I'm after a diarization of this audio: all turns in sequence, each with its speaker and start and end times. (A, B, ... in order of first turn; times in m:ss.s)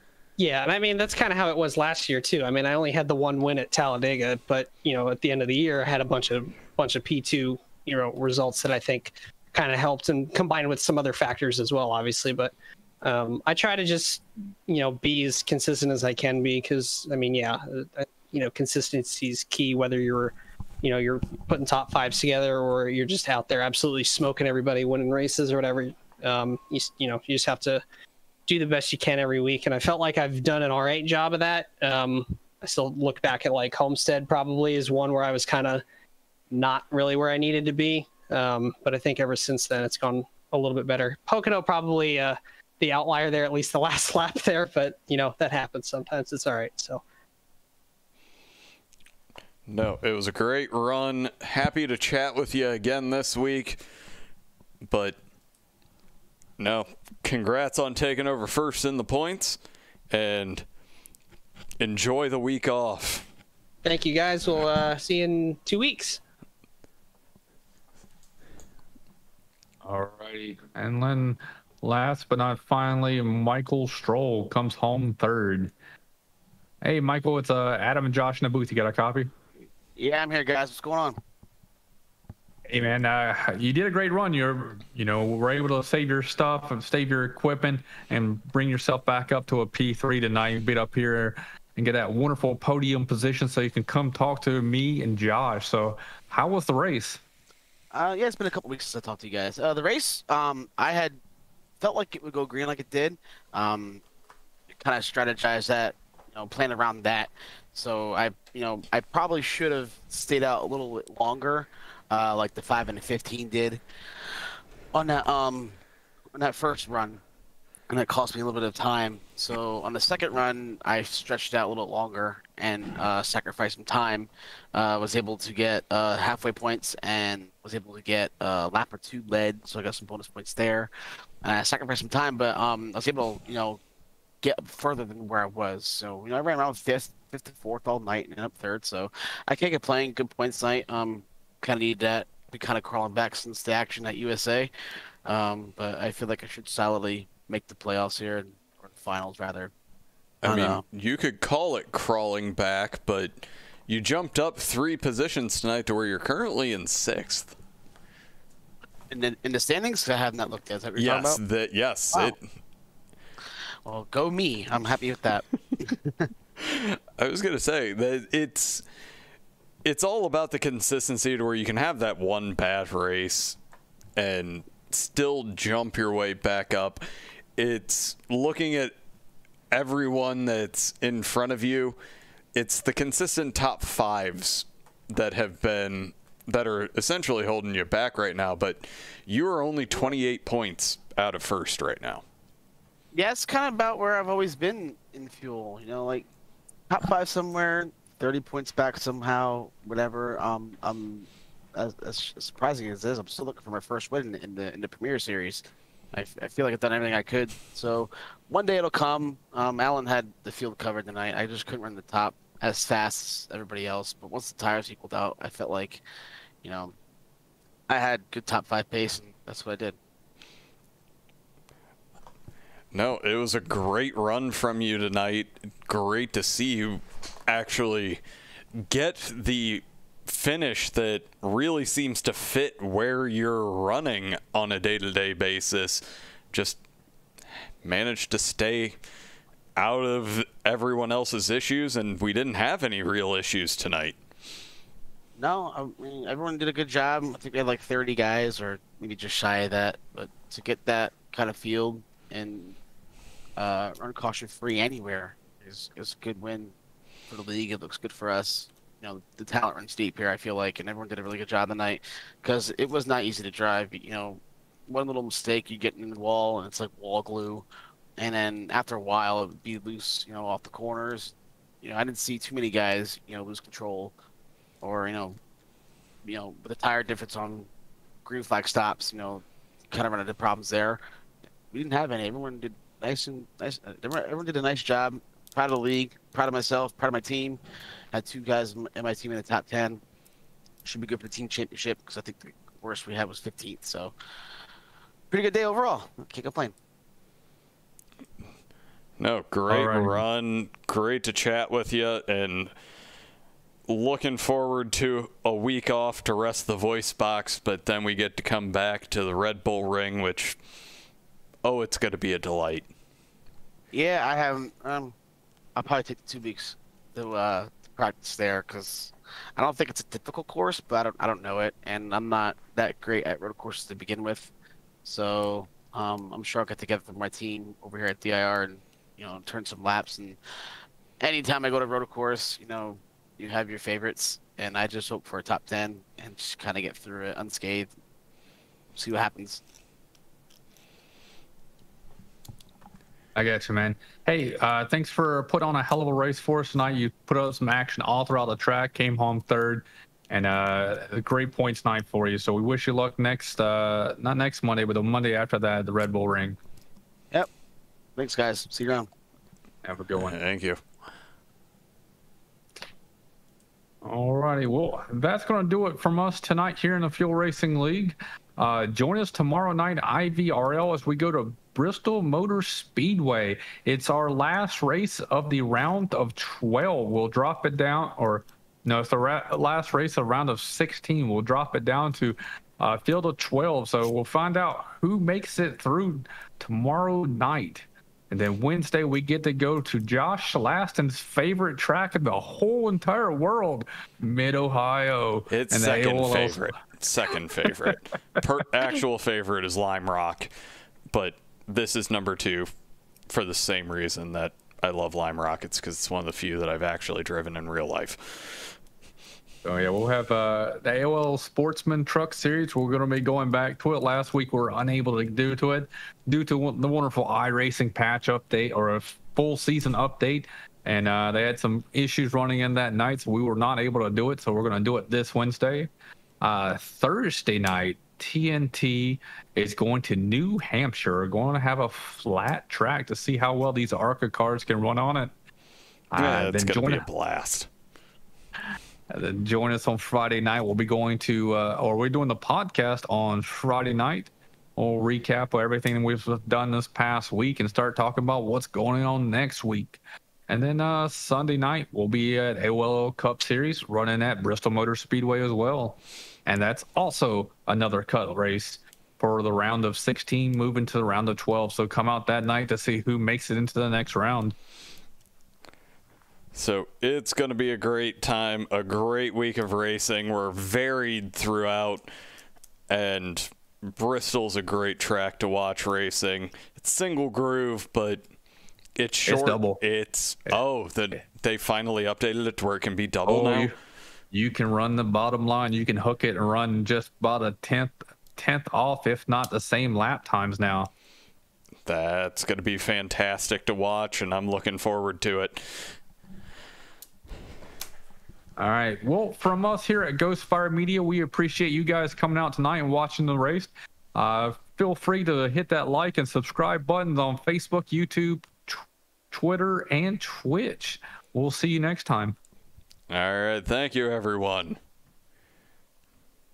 0:00.4-0:27.8 A
0:28.5-0:35.8 A
0:36.5-0:47.0 A
0:49.7-0:53.8 B
0:54.8-0:55.2 B
0:56.6-0:59.6 B
1:00.1-1:00.6 B
1:01.8-1:03.2 B
1:03.8-1:06.2 A
1:09.8-1:15.7 C
1:16.8-1:19.3 C
1:20.0-1:21.2 D
1:22.7-1:37.2 C
1:37.9-1:41.2 D
1:41.8-1:44.0 D
1:44.8-1:53.8 D
1:54.9-1:55.8 D
1:56.3-1:57.2 D
1:57.9-2:10.9 D
2:11.4-2:13.8 D
2:14.4-2:24.7 D
2:25.2-2:29.7 D
2:30.4-2:37.5 B
2:30.4-2:30.8 D
2:39.1-2:41.4 D
2:41.0-2:42.4 B
2:43.8-2:46.3 D
2:46.6-2:48.8 B
2:49.8-2:53.6 B
2:54.2-2:57.0 B
2:57.6-2:58.9 B
2:59.7-3:02.0 B
3:02.5-3:12.2 B
3:13.1-3:16.3 D
3:16.9-3:36.0 D
3:36.6-3:36.9 D
3:37.9-3:40.0 D
3:42.9-3:48.2 B
3:48.9-3:56.8 B
3:57.8-3:59.0 B
3:59.8-4:04.2 B
4:05.4-4:12.8 D
4:13.6-4:16.7 D
4:17.3-4:27.6 D
4:28.2-4:34.1 D
4:34.8-4:35.4 D
4:36.2-4:37.7 D
4:38.2-4:41.0 D
4:41.7-4:47.6 D
4:48.1-4:50.0 D
4:50.8-4:54.1 D
4:55.3-4:56.7 D
4:59.2-5:02.7 B
4:59.7-5:00.2 C
5:03.9-5:10.6 B
5:11.6-5:12.9 B
5:13.9-5:15.1 D
5:15.8-5:24.5 D
5:25.0-5:30.4 D
5:31.2-5:37.9 D
5:38.9-5:39.6 D
5:43.4-5:56.6 C
5:58.2-5:59.1 D
5:59.8-6:00.4 C
6:00.2-6:00.8 B
6:04.0-6:36.7 C
6:35.5-6:40.5 B
6:41.1-6:42.7 B
6:43.3-6:48.8 B
6:49.6-7:05.9 C
7:06.4-7:15.3 C
7:16.1-7:17.0 C
7:16.2-7:17.7 B
7:19.1-7:44.5 C
7:46.5-7:52.1 B
7:52.9-7:58.2 B
7:59.0-8:03.7 B
7:59.3-7:59.8 C
8:03.2-8:03.7 C
8:04.3-8:10.9 C
8:11.8-8:16.0 B
8:18.6-8:32.4 C
8:33.1-8:34.8 B